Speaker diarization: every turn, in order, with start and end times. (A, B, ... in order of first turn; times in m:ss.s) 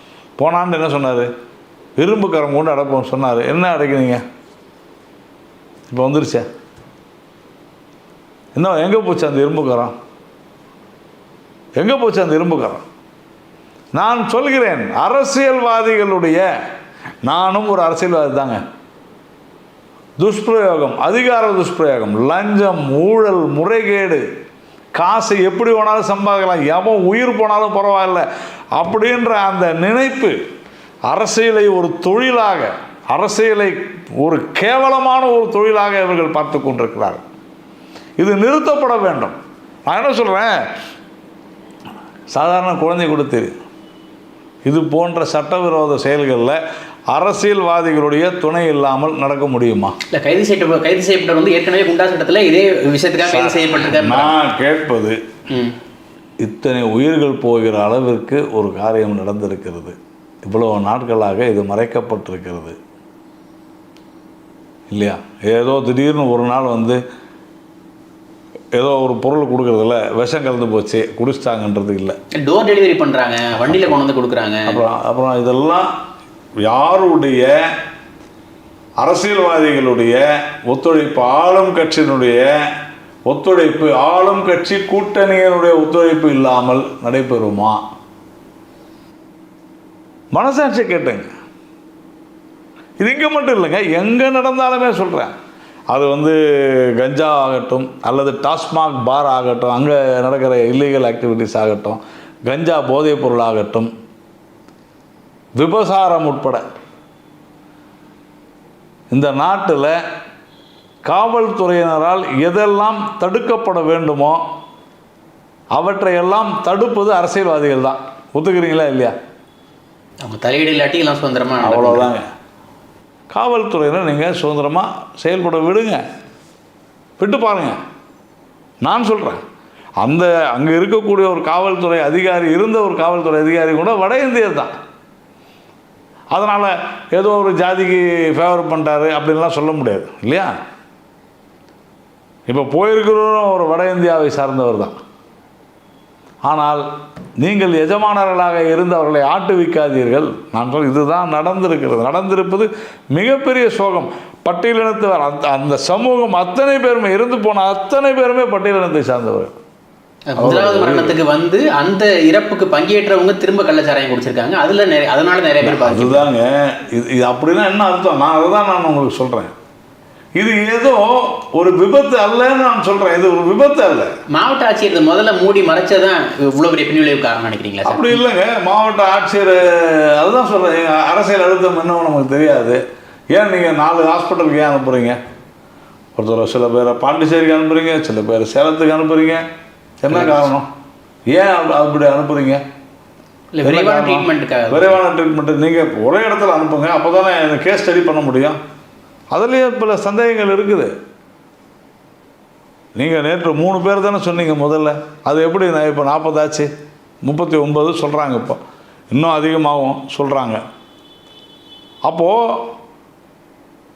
0:00.4-0:01.3 A
0:02.0-0:04.2 A
0:05.9-0:06.5 A
0:08.5-0:09.9 A
0:11.8-0:12.8 A
0:13.9-0:16.4 A
0:17.2-0:18.6 A
0:20.2-0:24.2 A
0:25.0-0:28.2 A
0:28.8-0:30.4 A
0:31.1-0:37.2 A
0:38.2-0:40.6 A
0:42.3-0:43.5 A
0:44.6-0:46.6 A
0:47.1-0:50.0 A
0:50.1-0:54.3 B
0:53.2-0:55.2 A
0:55.5-0:55.8 B
0:56.4-1:02.8 A
1:04.9-1:07.0 A
1:08.8-1:12.2 A
1:12.4-1:14.8 B
1:14.7-1:15.9 A
1:16.6-1:17.6 A
1:19.0-1:22.6 A
1:23.3-1:27.8 A
1:30.3-1:31.3 A
1:33.0-1:35.3 A
1:35.9-1:43.9 A
1:45.6-1:46.6 A
1:49.1-1:50.0 A
1:51.1-1:54.4 A
1:55.7-1:59.1 A
2:00.2-2:02.2 B
2:01.6-2:02.3 A
2:03.3-2:06.0 A
2:07.2-2:07.8 A
2:08.8-2:09.4 A
2:10.0-2:14.7 A
2:16.3-2:20.5 A
2:22.5-2:25.0 A
2:26.4-2:26.8 A
2:27.4-2:39.6 A
2:40.3-2:46.3 B
2:40.4-2:41.2 A
2:45.6-2:49.5 A
2:50.4-2:54.1 A
2:54.3-2:58.2 B
2:57.8-3:02.8 A
3:03.3-3:05.2 A
3:06.2-3:09.4 A
3:10.0-3:10.7 A
3:10.1-3:10.4 B
3:11.3-3:12.6 A
3:13.5-3:15.0 B
3:13.6-3:18.6 A
3:19.3-3:20.9 A
3:23.0-3:26.7 A
3:27.2-3:28.6 A
3:29.1-3:30.6 A
3:32.1-3:32.7 A